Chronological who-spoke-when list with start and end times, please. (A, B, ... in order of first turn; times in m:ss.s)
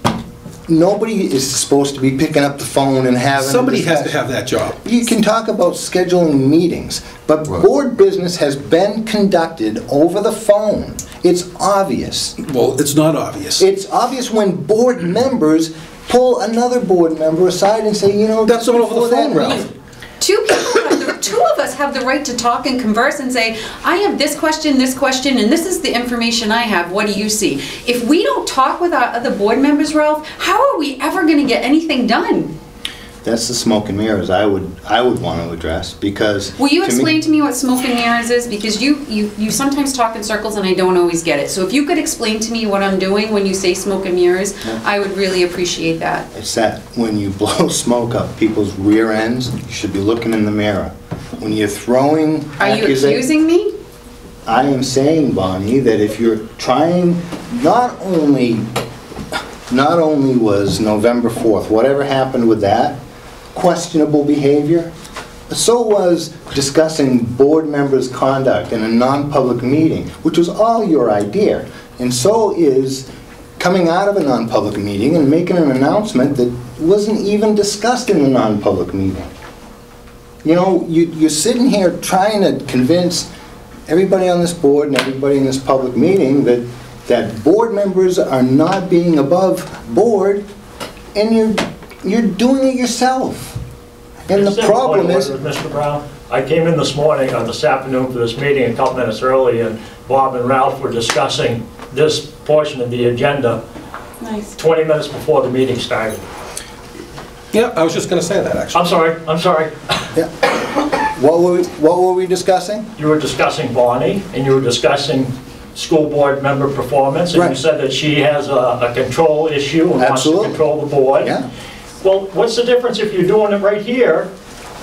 0:00.7-0:04.2 A
0:03.4-0:04.8 B
0:04.8-0:12.4 A
0:12.4-0:13.6 B
0:13.6-0:19.7 A
0:18.4-0:19.7 B
0:20.2-0:32.6 C
0:33.2-0:37.2 A
0:36.6-0:46.3 C
0:46.3-0:53.3 A
0:52.6-0:53.7 C
0:54.5-0:58.7 A
0:59.3-1:03.0 A
1:03.5-1:04.9 A
1:05.5-1:13.1 A
1:13.6-1:19.3 A
1:20.4-1:23.3 A
1:23.9-1:30.4 A
1:31.2-1:33.6 A
1:34.3-1:35.3 A
1:34.4-1:43.6 D
1:44.2-1:44.5 C
1:44.6-1:46.2 D
1:47.5-1:49.0 B
1:48.8-1:49.7 D
1:50.2-1:52.9 A
1:53.0-2:01.3 D
1:57.3-1:57.6 A
2:00.0-2:00.6 A
2:01.2-2:01.5 A
2:02.0-2:04.3 D